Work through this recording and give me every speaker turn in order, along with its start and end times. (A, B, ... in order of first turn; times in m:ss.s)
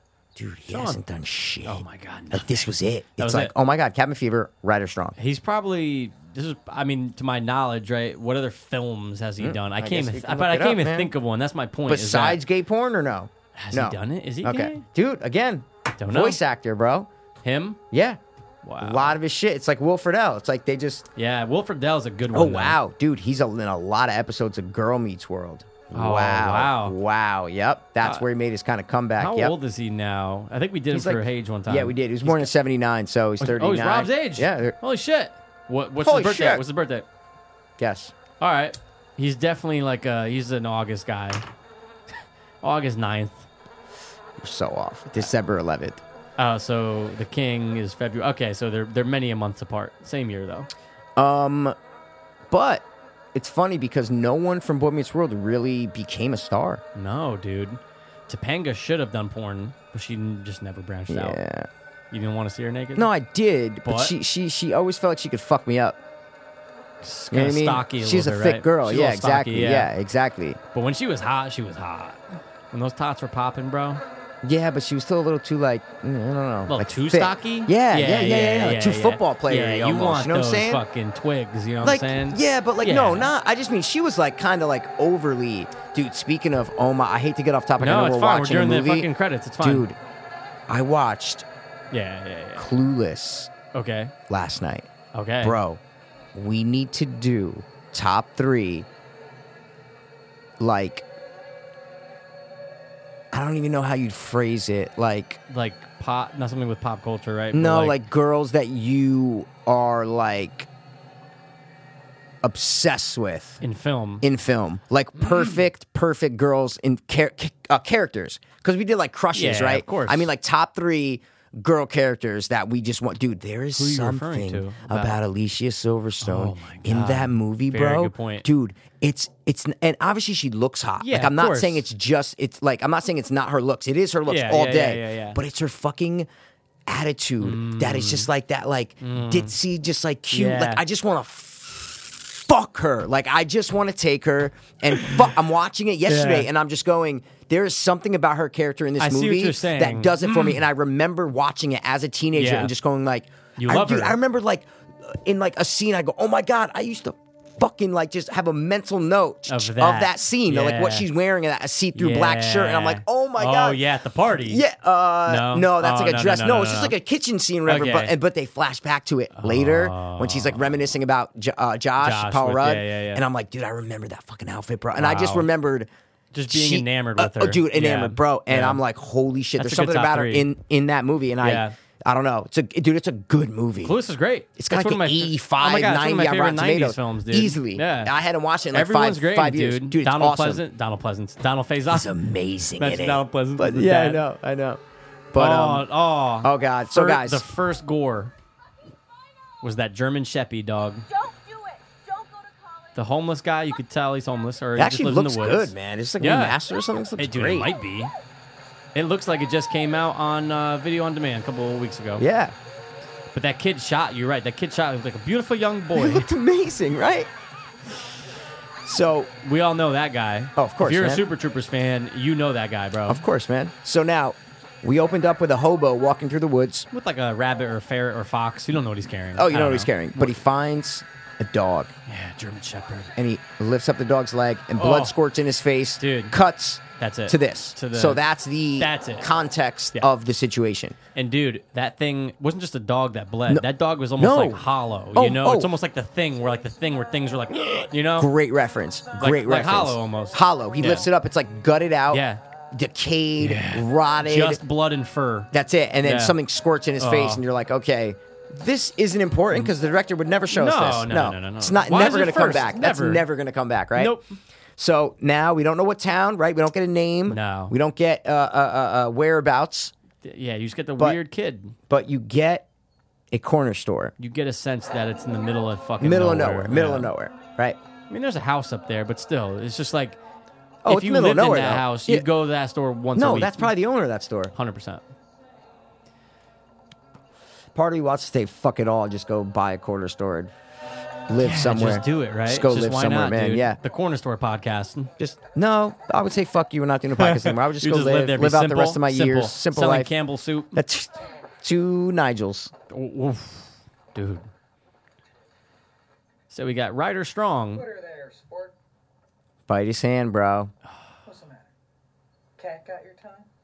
0:00.4-0:05.2 A
0:00.7-0:01.0 B
0:01.6-0:03.5 B
0:05.2-0:12.4 B
0:09.4-0:11.1 A
0:11.9-0:17.1 A
0:13.6-0:14.8 B
0:15.9-0:16.4 B
0:17.4-0:17.8 B
0:17.9-0:18.2 A
0:18.6-0:19.2 B
0:18.8-0:21.1 A
0:21.2-0:22.8 B
0:22.3-0:29.6 A
0:25.9-0:27.0 B
0:29.2-0:32.5 B
0:30.9-0:34.8 A
0:33.4-0:37.1 B
0:36.0-0:36.6 A
0:37.8-0:38.1 A
0:38.4-0:41.4 B
0:42.6-0:43.4 B
0:44.4-0:46.0 A
0:46.4-0:50.7 B
0:51.2-0:51.8 A
0:52.5-0:56.8 A
0:56.9-1:01.4 B
1:01.1-1:01.7 A
1:02.1-1:03.1 B
1:03.0-1:06.0 A
1:03.8-1:04.2 B
1:07.0-1:09.9 B
1:07.3-1:10.6 A
1:10.7-1:14.0 B
1:14.4-1:20.8 A
1:16.7-1:23.3 B
1:21.8-1:30.0 A
1:27.8-1:29.9 B
1:30.7-1:31.4 A
1:31.9-1:32.7 B
1:32.6-1:33.5 A
1:33.7-1:34.1 B
1:34.3-1:34.9 A
1:35.1-1:35.6 B
1:35.4-1:35.8 A
1:36.3-1:38.9 A
1:40.6-1:41.0 A
1:43.3-1:45.4 A
1:45.5-1:48.0 B
1:47.5-1:50.7 A
1:52.4-1:53.6 A
1:53.6-1:54.2 B
1:54.2-2:16.3 A
1:55.2-1:55.6 B
1:59.3-2:00.3 B
2:03.8-2:05.2 B
2:06.2-2:08.5 B
2:11.0-2:11.8 B
2:14.3-2:15.4 B
2:16.9-2:43.8 A
2:17.4-2:18.3 B
2:19.0-2:19.5 B
2:20.3-2:20.8 B
2:26.1-2:26.5 B
2:29.0-2:30.6 B
2:32.3-2:32.7 B
2:33.6-2:34.2 B
2:39.5-2:41.1 B
2:41.9-2:44.6 B
2:44.4-2:55.9 A
2:45.3-2:46.9 B
2:47.7-2:48.1 B
2:49.3-2:50.8 B
2:52.0-2:53.2 B
2:55.0-2:55.5 B
2:56.3-2:58.8 B
2:56.5-3:04.0 A
2:59.6-3:00.5 B
3:01.4-3:01.8 B
3:03.8-3:08.1 B
3:04.6-3:10.6 A
3:08.7-3:12.1 B
3:11.9-3:14.8 A
3:12.8-3:14.2 B
3:15.3-3:15.9 A
3:15.4-3:18.3 B
3:16.4-3:17.5 A
3:19.6-3:21.1 B
3:21.1-3:23.0 C
3:22.9-3:26.6 B
3:24.8-3:27.7 A
3:27.2-3:28.1 B
3:28.9-3:32.2 B
3:32.2-3:32.6 A
3:33.3-3:36.3 B
3:35.9-3:37.3 A
3:38.8-3:39.3 A
3:39.4-3:43.2 B
3:40.6-3:41.3 A
3:43.1-3:46.9 A
3:46.9-3:50.3 B
3:49.3-3:51.9 A
3:52.1-3:53.1 B
3:53.2-4:01.0 A
3:54.8-3:55.2 B
3:56.0-3:56.3 B
3:57.0-3:58.2 B
3:58.8-3:59.3 B
4:01.2-4:08.3 B
4:03.5-4:05.7 A
4:08.2-4:14.6 A
4:09.2-4:11.1 B
4:12.1-4:12.4 B
4:13.4-4:15.5 B
4:15.5-4:24.2 A
4:16.0-4:16.4 B
4:17.0-4:17.4 B
4:20.5-4:23.2 B
4:24.0-4:24.3 B
4:24.8-4:29.9 A
4:27.3-4:27.7 B
4:30.2-4:31.8 B
4:31.9-4:32.7 A
4:33.3-4:34.1 A
4:34.2-4:37.1 B
4:36.0-4:37.8 A
4:38.1-4:40.2 B
4:40.8-4:42.3 A
4:40.8-4:43.7 B
4:43.2-4:44.5 A
4:44.6-4:45.0 B
4:47.7-4:50.5 A
4:51.3-4:53.8 A
4:51.4-4:55.1 B
4:55.2-5:00.1 A
4:57.2-5:00.8 B
5:00.7-5:02.7 A
5:02.9-5:04.5 B
5:06.5-5:07.9 B
5:07.7-5:08.7 D
5:09.7-5:10.7 A
5:11.2-5:11.7 D
5:12.6-5:13.5 D